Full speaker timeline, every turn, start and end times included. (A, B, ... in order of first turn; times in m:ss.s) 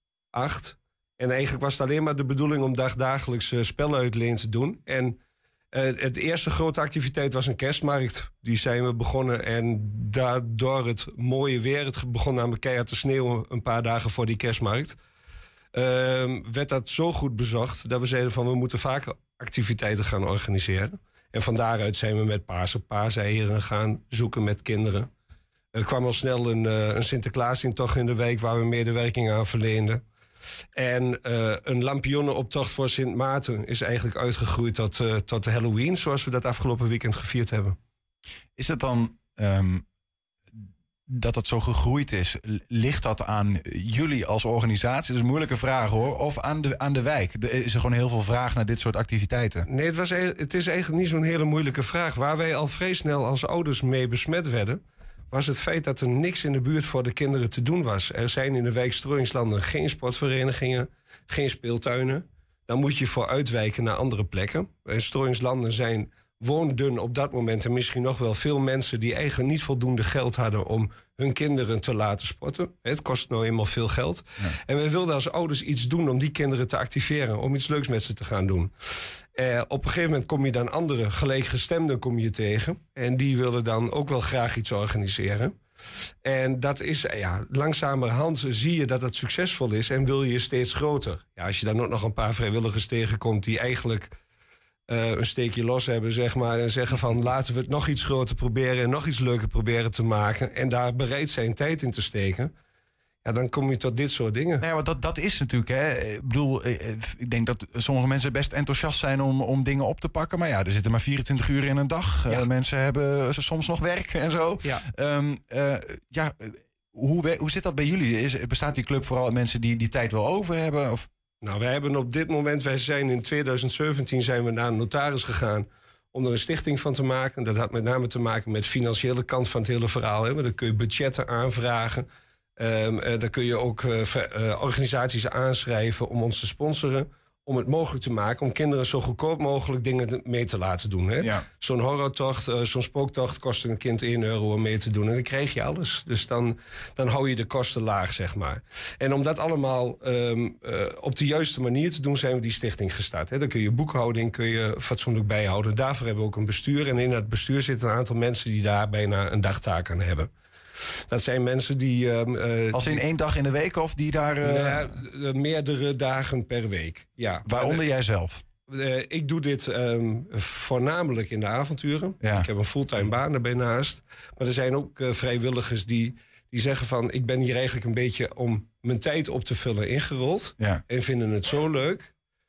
0:00.3-0:05.2 A
0:05.7-0:15.0 A
0:15.7-0:25.1 A
0:25.7-0:30.0 A
0:30.8-0:37.8 A
0:38.6-0:39.8 B
0:40.5-0:49.7 B
0:49.7-1:18.7 A
1:19.3-1:25.6 A
1:26.2-1:34.1 A
1:34.9-1:42.5 A
1:43.2-1:44.6 A
1:44.6-2:01.1 B
2:01.4-2:12.1 A
2:12.6-2:40.3 A
2:41.1-2:43.0 A
2:42.7-2:44.9 B
2:44.4-2:47.8 A
2:47.4-2:48.4 B
2:48.7-3:02.1 A
2:52.2-2:52.5 B